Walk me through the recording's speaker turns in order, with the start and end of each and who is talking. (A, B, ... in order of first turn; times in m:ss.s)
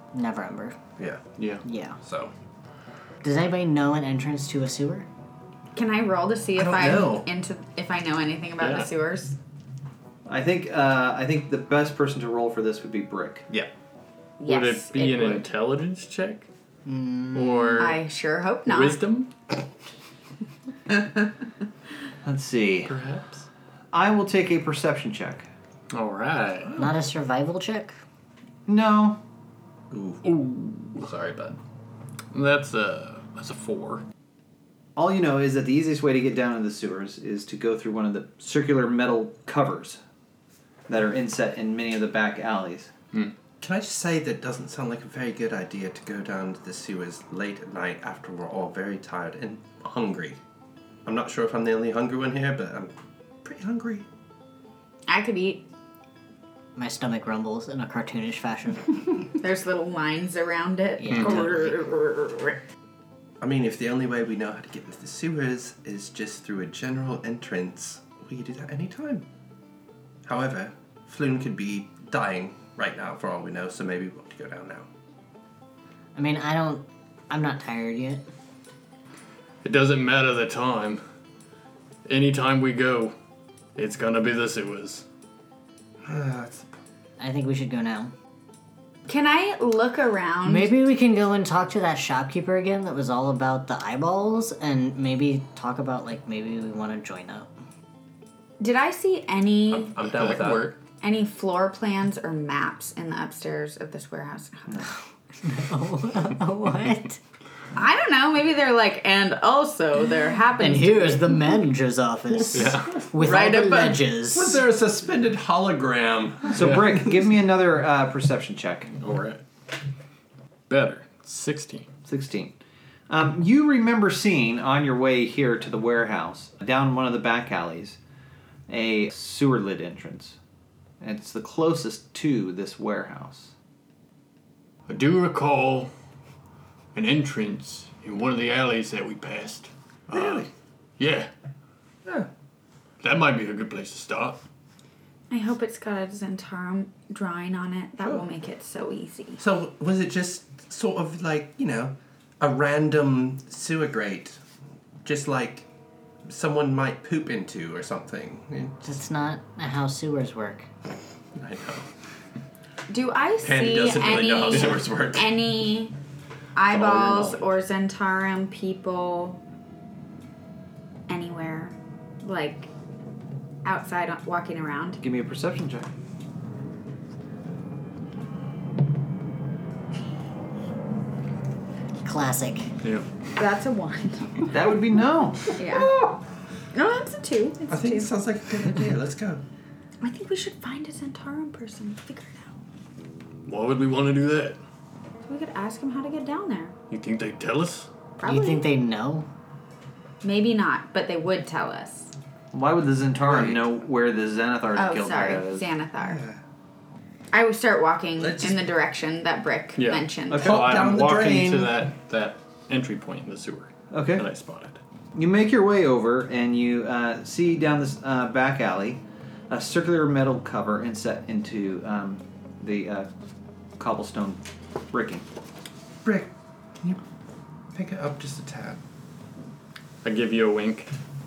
0:00.1-0:00.8 A
0:01.0-0:01.2 B
0:01.4-0:01.6 C
0:01.6-0:02.0 A
0:02.0-0:02.3 B
0:03.2-0:05.1 A
0:05.7-0:09.4 D
0:06.6-0:07.3 B
0:08.6-0:08.9 C
0:10.3-0:13.5 E
0:14.4-0:15.4 D
0:14.4-0:16.5 C
0:16.8-0:17.9 A
0:17.3-0:18.0 C
0:17.8-0:19.0 D
0:18.6-0:19.3 C
0:22.2-0:22.9 E
0:22.9-0:23.4 C
0:23.9-0:25.5 E
0:25.9-0:26.8 C
0:26.8-0:28.0 A
0:28.7-0:29.2 E
0:29.9-0:30.2 B
0:30.2-0:31.1 C
0:31.0-0:31.5 B
0:32.3-0:34.0 C
0:35.0-0:40.0 E
0:40.9-0:42.9 E
0:43.6-0:50.4 B
0:51.0-0:52.9 B
0:53.4-0:54.0 B
0:55.1-0:55.6 D
0:56.8-0:59.0 A
0:59.4-1:02.6 D
1:01.0-1:01.8 A
1:01.1-1:01.4 C
1:03.4-1:09.2 B
1:10.2-1:14.9 B
1:16.1-1:18.2 A
1:19.6-1:21.0 C
1:22.0-1:23.1 C
1:23.7-1:25.0 C
1:26.0-1:26.7 B
1:27.2-1:28.1 A
1:29.1-1:30.8 D
1:30.4-1:37.5 A
1:38.6-1:39.9 D
1:39.7-1:40.7 B
1:40.0-1:40.8 C
1:41.0-1:44.9 D
1:45.4-1:47.2 A
1:47.7-1:51.3 D
1:50.6-1:54.6 A
1:52.5-1:53.1 C
1:53.2-1:56.8 B
1:53.2-1:53.9 D
1:56.5-1:58.9 E
1:56.6-1:56.8 C
1:58.9-1:59.4 C
2:00.7-2:01.9 C
2:02.0-2:02.6 E
2:03.1-2:08.0 E
2:08.7-2:10.4 E
2:11.0-2:13.5 E
2:14.9-2:15.9 C
2:16.9-2:20.5 C
2:20.1-2:20.5 B
2:21.0-2:21.3 C
2:23.0-2:24.4 C
2:25.3-2:29.4 D
2:29.4-2:34.4 B
2:35.0-2:35.6 B
2:36.2-2:38.7 B
2:38.8-2:40.7 A
2:41.4-2:41.8 B
2:42.9-2:45.9 D
2:43.4-2:45.3 B
2:46.5-2:49.4 D
2:46.8-2:47.3 C
2:51.1-2:52.7 D
2:53.6-2:55.0 D
2:55.0-2:55.9 E
3:02.0-3:02.7 A
3:03.4-3:04.5 D
3:04.5-3:05.5 E
3:05.6-3:06.0 D
3:05.7-3:06.2 B
3:06.7-3:08.1 D
3:07.7-3:09.4 B
3:10.0-3:12.5 D
3:13.4-3:14.6 C
3:15.2-3:16.7 D
3:16.9-3:17.9 C
3:18.2-3:18.6 D
3:18.2-3:19.3 A
3:20.2-3:22.1 D
3:22.5-3:25.6 E
3:24.7-3:26.2 D
3:26.0-3:26.4 B
3:27.3-3:30.5 D
3:28.2-3:28.6 B
3:29.8-3:34.8 C
3:30.3-3:31.7 E
3:30.3-3:31.6 B
3:33.9-3:34.2 E
3:35.1-3:43.1 E
3:43.8-3:45.2 E
3:46.0-3:47.0 B
3:47.7-3:48.8 B
3:50.0-3:50.9 C